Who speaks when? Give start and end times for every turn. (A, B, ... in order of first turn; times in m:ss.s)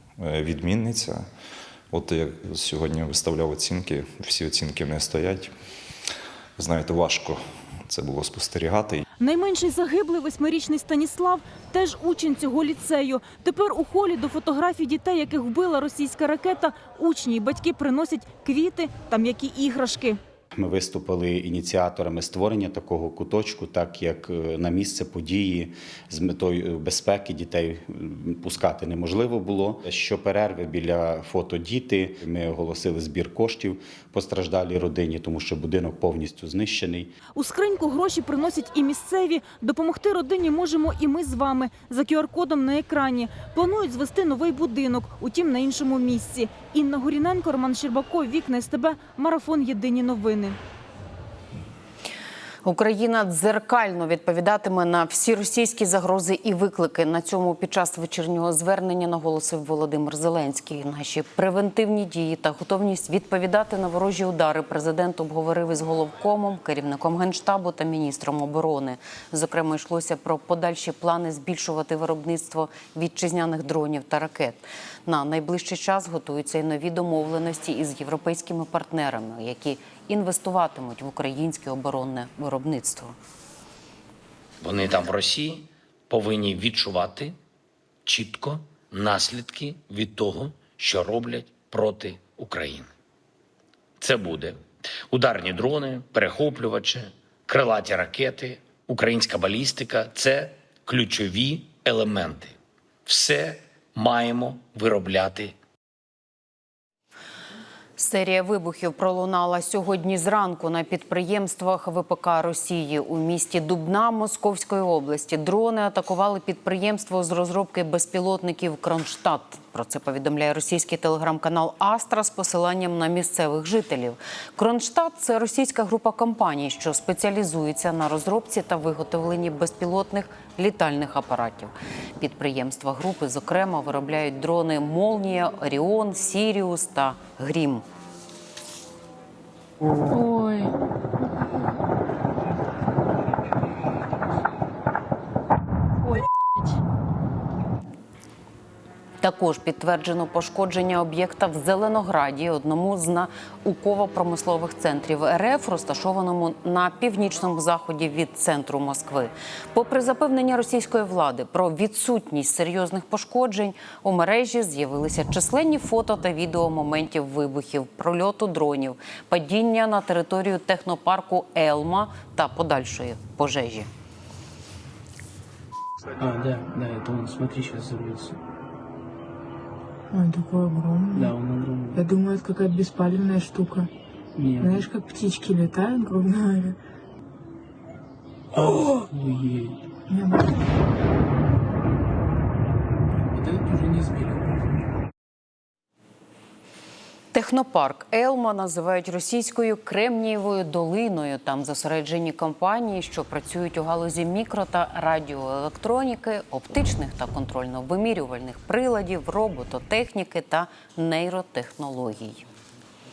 0:00.2-0:01.2 A
0:01.9-0:05.5 A
0:06.6-0:09.0 A
0:09.2-0:20.2 B
0:20.6-0:37.1 C
0:37.3-0:50.6 B
0:52.6-1:23.1 D
1:24.6-1:27.3 E
1:28.0-1:32.9 E
1:34.0-1:42.5 E
1:43.0-1:45.5 E
1:48.0-2:17.8 D
2:29.2-2:53.9 D
2:56.2-2:58.4 F
3:00.1-3:01.3 G
3:01.1-3:02.0 F
3:01.9-3:03.9 G
3:04.4-3:04.8 F
3:04.6-3:06.8 G
3:08.5-3:09.8 F
3:08.7-3:09.1 G
3:10.1-3:10.5 G
3:13.3-3:14.4 F
3:17.3-3:32.4 D